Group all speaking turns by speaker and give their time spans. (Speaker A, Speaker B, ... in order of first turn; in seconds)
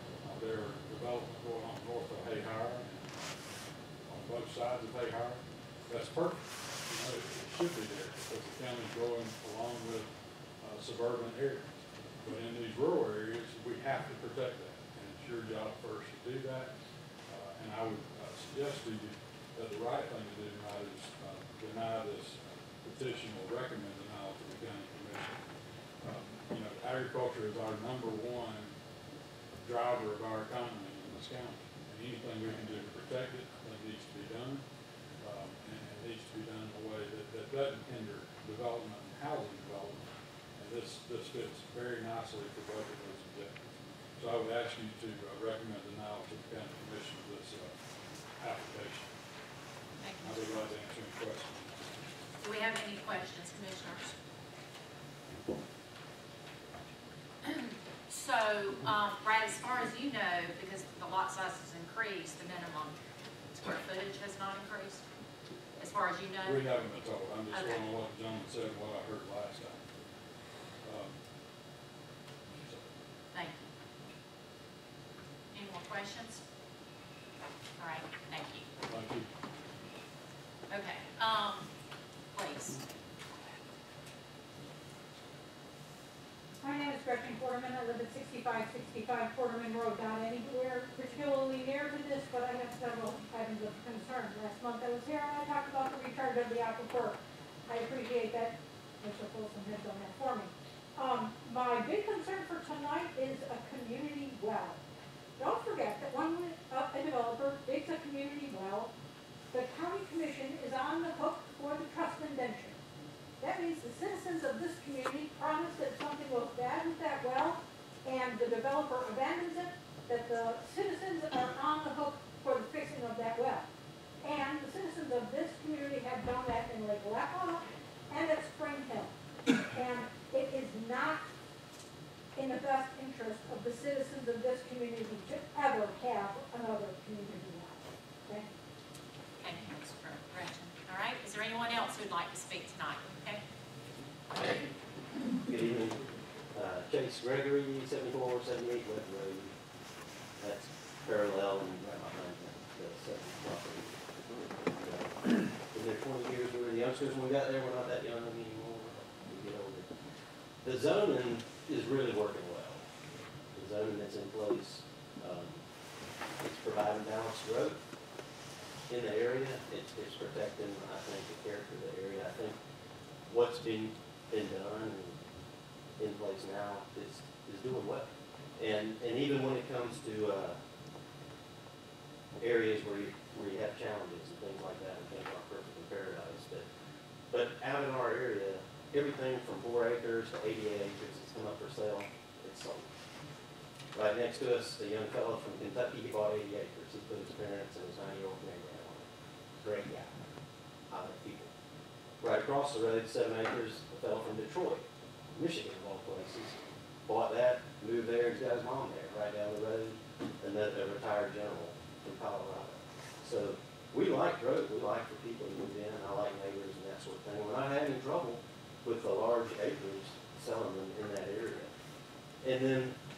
Speaker A: 0.2-3.1, 4.1-10.1, 10.6-11.7, 12.2-16.7, 17.3-25.4, 26.0-28.8, 29.6-34.6, 35.2-43.5, 44.2-47.7, 48.4-49.1, 50.2-51.8, 66.4-69.9, 70.8-71.2, 72.5-72.9, 78.9-79.3
Speaker B: 50.0-50.7, 52.4-54.1, 57.4-63.0, 63.5-65.0, 65.8-66.6, 67.5-67.8, 73.3-73.7, 75.5-76.4, 77.8-78.7, 80.7-81.7, 82.3-82.8, 139.4-143.4
Speaker C: 86.6-104.8, 105.4-108.9, 109.5-112.8, 113.4-123.7, 124.2-129.2, 129.7-131.2, 132.3-138.5
Speaker D: 145.5-146.0, 146.5-149.5, 150.4-153.9, 154.6-159.9, 160.6-162.8, 163.6-165.6, 166.4-167.8, 168.9-172.6, 173.3-175.2, 176.0-180.6, 182.4-186.7, 187.3-192.9, 193.9-199.1, 199.6-200.1, 200.9-201.5, 202.2-221.7, 222.4-222.9